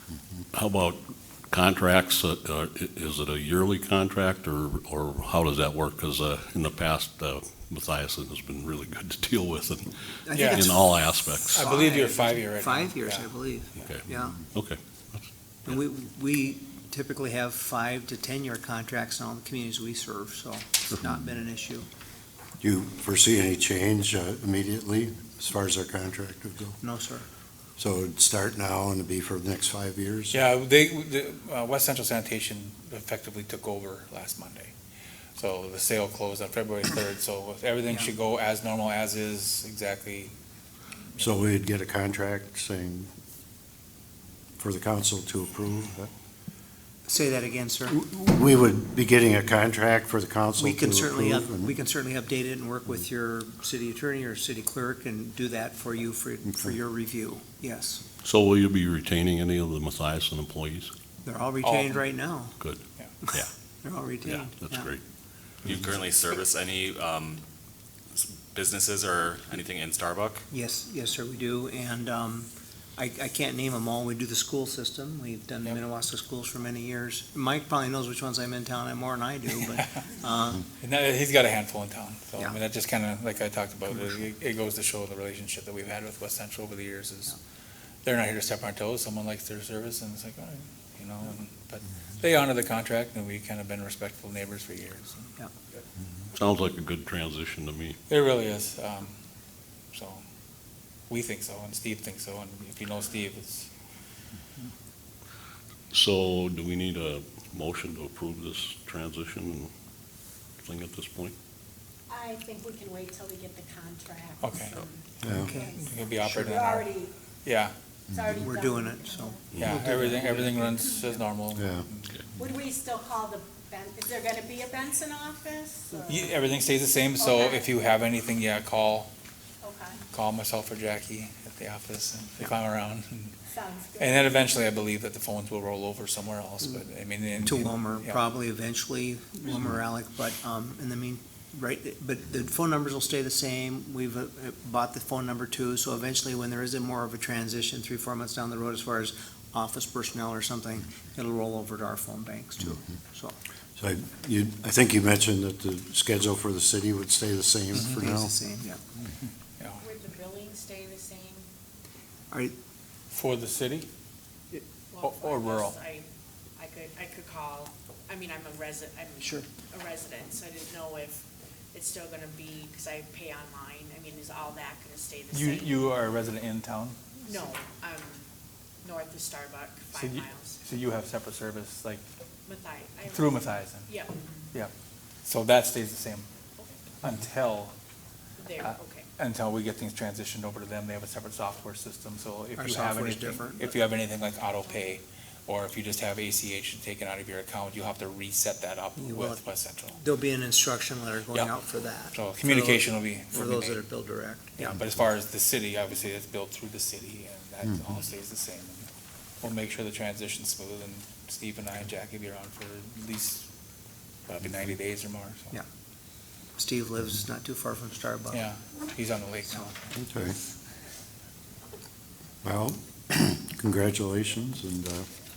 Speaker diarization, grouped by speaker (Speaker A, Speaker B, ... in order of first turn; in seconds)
Speaker A: 0.5-9.9, 10.5-11.6, 13.9-15.2, 58.2-60.9, 62.6-63.5, 64.3-65.0, 96.3-98.0, 105.9-109.7, 110.6-111.3
Speaker B: 10.2-10.9, 11.4-14.4, 15.7-21.9, 26.8-27.2, 47.1-48.0, 50.6-58.0, 61.2-62.5, 63.3-64.9, 70.5-80.6, 115.3-116.5, 118.4-120.8, 137.4-153.3, 157.9-158.8, 192.6-193.7, 199.0-204.8, 216.6-218.4
Speaker C: 10.3-10.7, 11.6-13.3, 30.3-34.7, 35.4-40.3, 61.6-62.0, 80.8-87.3, 88.0-95.3, 98.1-99.2, 99.9-100.2, 101.1-103.7, 114.4-114.8, 115.6-116.9, 117.4-117.7, 119.6-122.2, 126.0-129.1, 130.1-133.3, 134.0-138.2, 163.1-163.9, 165.0-165.8, 175.3-177.0, 179.9-182.0, 183.1-183.9, 185.2-186.3, 187.0-187.7, 188.6-199.9, 202.1-203.8, 204.5-208.9, 209.4-213.5, 214.3-215.6, 218.3-219.8
Speaker D: 22.6-26.8, 27.8-30.4, 41.2-43.1, 44.6-46.1, 48.0-51.7, 115.2-115.5, 121.5-121.8, 153.8-158.3, 219.9-220.3, 222.4-225.1
Speaker E: 65.6-67.4, 68.1-70.4
Speaker F: 112.1-117.1, 118.1-119.6, 122.3-126.3, 127.2-127.7, 129.6-130.0, 133.5-134.4
Speaker G: 159.8-161.4, 164.9-166.0, 166.6-171.2, 171.7-175.8, 177.2-178.2, 178.8-180.6, 182.5-184.3, 188.4-189.1